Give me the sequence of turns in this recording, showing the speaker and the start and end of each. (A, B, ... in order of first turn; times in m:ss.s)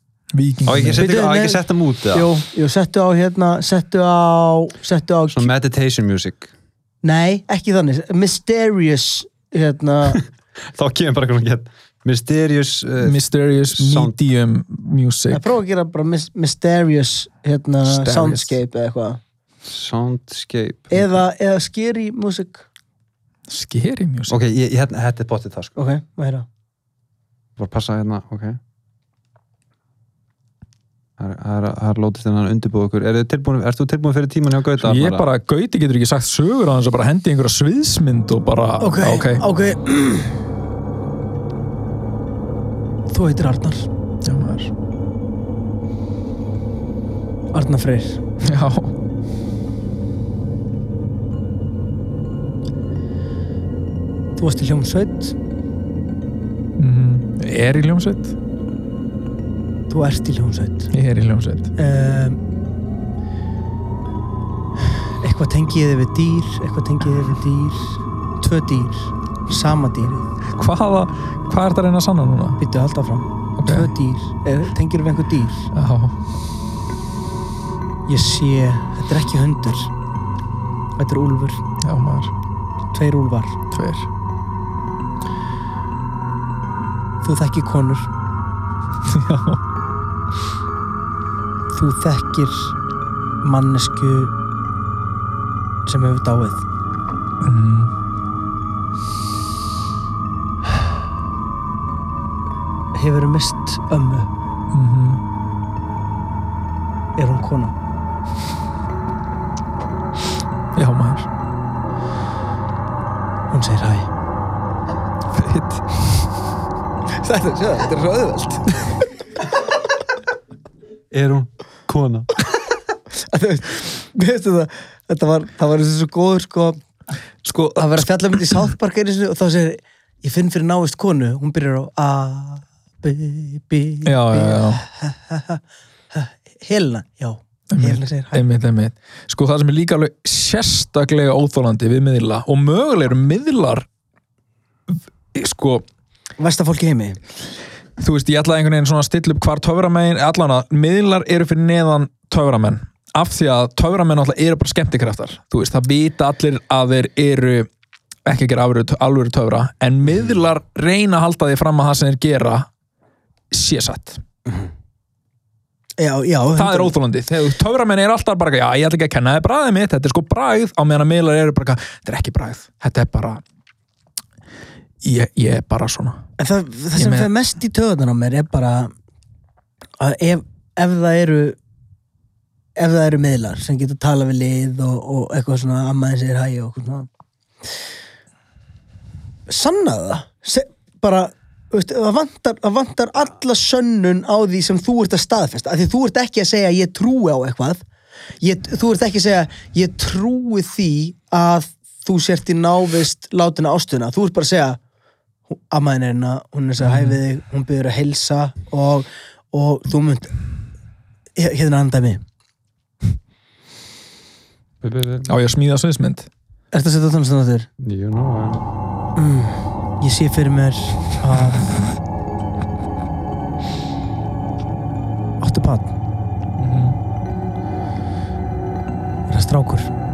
0:00.3-0:01.0 A
0:00.7-0:02.3 B
0:01.0-0:01.6 C
0:02.1-0:05.5 C
0:05.3-0:06.5 B
0:07.0-0:10.2 C
0:10.1-0:14.1 B
0:13.0-0:15.5 A
0:15.3-0:19.2 C
0:17.8-0:18.6 A
0:19.6-0:21.1 B
0:20.9-0:22.7 C
0:23.5-0:24.4 A
0:24.3-0:25.8 B
0:25.8-0:26.5 C
0:27.6-0:28.6 B
0:31.2-0:35.3 B
0:34.8-0:39.4 A
0:38.8-0:40.4 C
0:43.1-0:43.9 C
0:44.2-0:44.7 A
0:47.5-0:48.2 C
0:48.4-0:48.9 A
0:54.4-0:55.4 C
0:56.8-0:58.3 A
0:59.9-1:00.9 C
1:00.9-1:01.7 A
1:01.8-1:02.4 C
1:04.9-1:10.3 C
1:10.5-1:12.6 A
1:12.6-1:15.7 C
1:13.6-1:13.9 A
1:15.7-1:16.2 A
1:18.1-1:19.9 C
1:21.0-1:21.6 C
1:21.8-1:22.3 A
1:22.9-1:23.6 C
1:23.7-1:24.1 A
1:27.2-1:28.1 C
1:29.0-1:29.6 A
1:31.7-1:32.7 C
1:33.4-1:34.3 C
1:35.9-1:36.6 C
1:37.4-1:37.9 A
1:42.9-1:44.3 C
1:44.7-1:45.2 A
1:47.2-1:47.7 C
1:50.7-1:51.3 A
1:53.5-1:54.1 C
1:55.3-1:55.8 A
1:57.2-1:58.9 C
2:01.1-2:02.4 B
2:03.3-2:06.8 C
2:07.4-2:08.7 A
2:07.8-2:15.6 C
2:14.0-2:14.8 A
2:16.1-2:18.4 C
2:17.7-2:23.9 A
2:24.9-2:25.8 A
2:26.4-2:27.2 C
2:28.0-2:37.7 A
2:38.2-2:42.7 A
2:43.5-2:44.2 A
2:46.0-2:47.0 C
2:46.6-2:53.4 A
2:55.0-2:56.2 A
2:56.4-2:58.9 C
2:57.0-2:57.3 A
3:00.0-3:01.6 C
3:02.8-3:07.1 C
3:09.5-3:17.8 C
3:18.4-3:24.8 C
3:25.6-3:30.4 C
3:26.8-3:27.2 A
3:31.4-3:32.2 C
3:34.8-3:35.3 B
3:35.3-3:36.3 A
3:36.7-3:37.7 C
3:37.8-3:38.6 B
3:39.2-3:41.7 C
3:45.4-3:45.9 C
3:46.6-3:47.0 A
3:49.3-3:49.9 C